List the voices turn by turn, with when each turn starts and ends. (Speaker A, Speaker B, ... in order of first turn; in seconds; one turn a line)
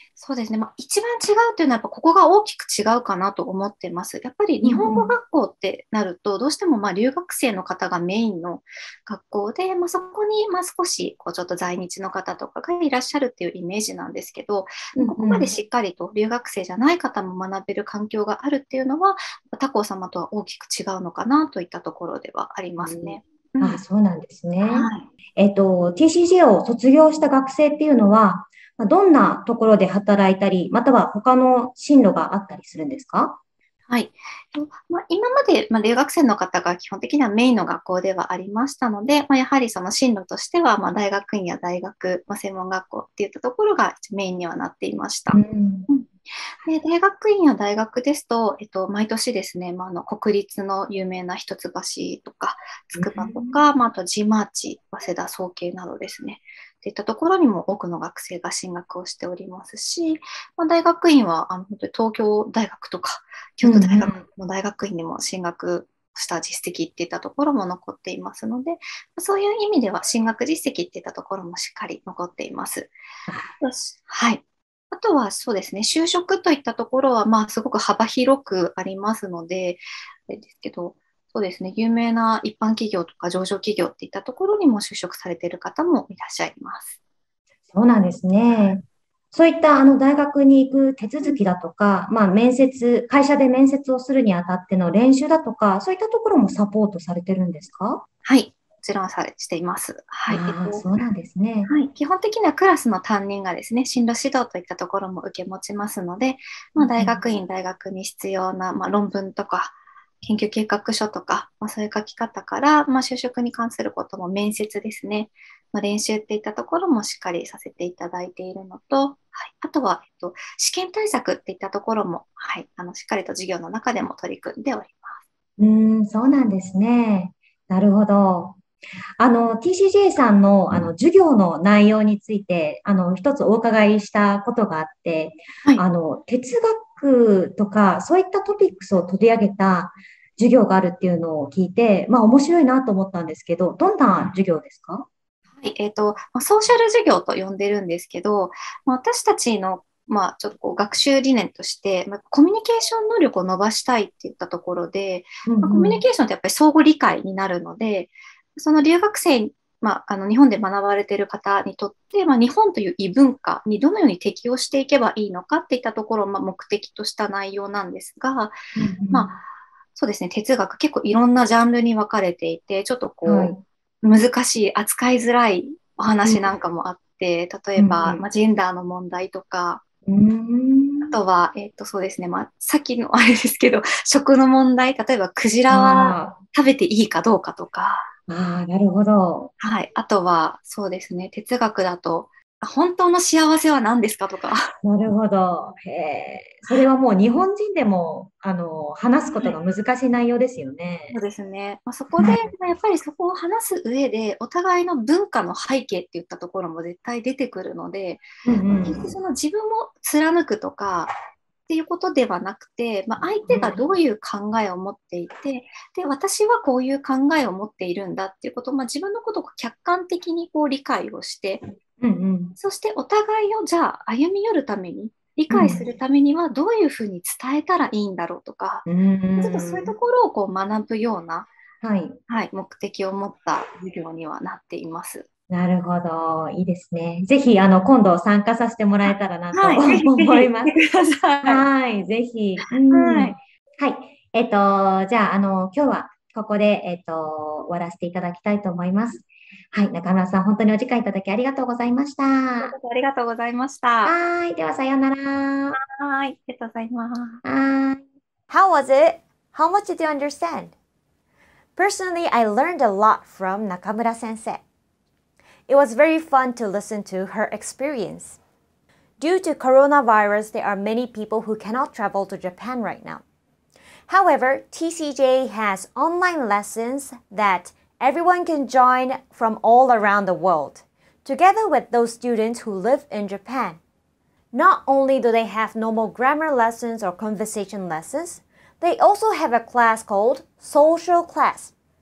Speaker A: 0.2-23.8
Speaker B: 4.6-5.2
Speaker B: 15.0-15.6
Speaker B: 22.8-33.4
Speaker A: 24.6-25.1
Speaker A: 33.9-46.1
Speaker B: 45.3-45.9
Speaker A: 46.6-73.0
Speaker B: 53.0-53.6
Speaker B: 63.6-64.2
Speaker A: 73.6-87.0
Speaker B: 87.7-98.0
Speaker A: 98.2-100.9
Speaker B: 100.3-101.7
Speaker A: 101.7-125.2
Speaker B: 106.8-107.2
Speaker B: 125.6-128.6
Speaker B: 129.2-145.1
Speaker A: 145.6-168.5
Speaker B: 155.5-156.0
Speaker B: 168.8-169.4
Speaker A: 169.1-169.4
Speaker A: 169.9-179.8
Speaker B: 173.2-173.6
Speaker B: 177.8-178.2
Speaker B: 180.1-181.2
Speaker A: 181.1-188.1
Speaker B: 185.7-186.4
Speaker B: 188.3-189.5
Speaker A: 189.6-194.7
Speaker B: 194.8-201.2
Speaker A: 201.1-211.2
Speaker B: 202.2-202.4
Speaker B: 208.4-209.1
Speaker A: 211.7-221.7
Speaker B: 213.5-213.8
Speaker B: 222.0-222.6
Speaker A: 222.6-228.9
Speaker B: 225.5-225.8
Speaker B: 228.9-229.9
Speaker A: 229.4-231.5
Speaker B: 231.8-232.2
Speaker A: 232.3-235.3
Speaker B: 235.5-240.8
Speaker A: 239.0-241.7
Speaker B: 241.4-252.7
Speaker A: 242.8-243.4
Speaker A: 252.6-254.2
Speaker B: 254.1-255.8
Speaker A: 255.8-257.4
Speaker B: 257.4-258.0
Speaker C: 258.5-260.7
Speaker C: 261.8-264.6
Speaker C: 265.7-268.4
Speaker C: 269.2-273.2
Speaker C: 274.1-283.8
Speaker C: 284.5-291.7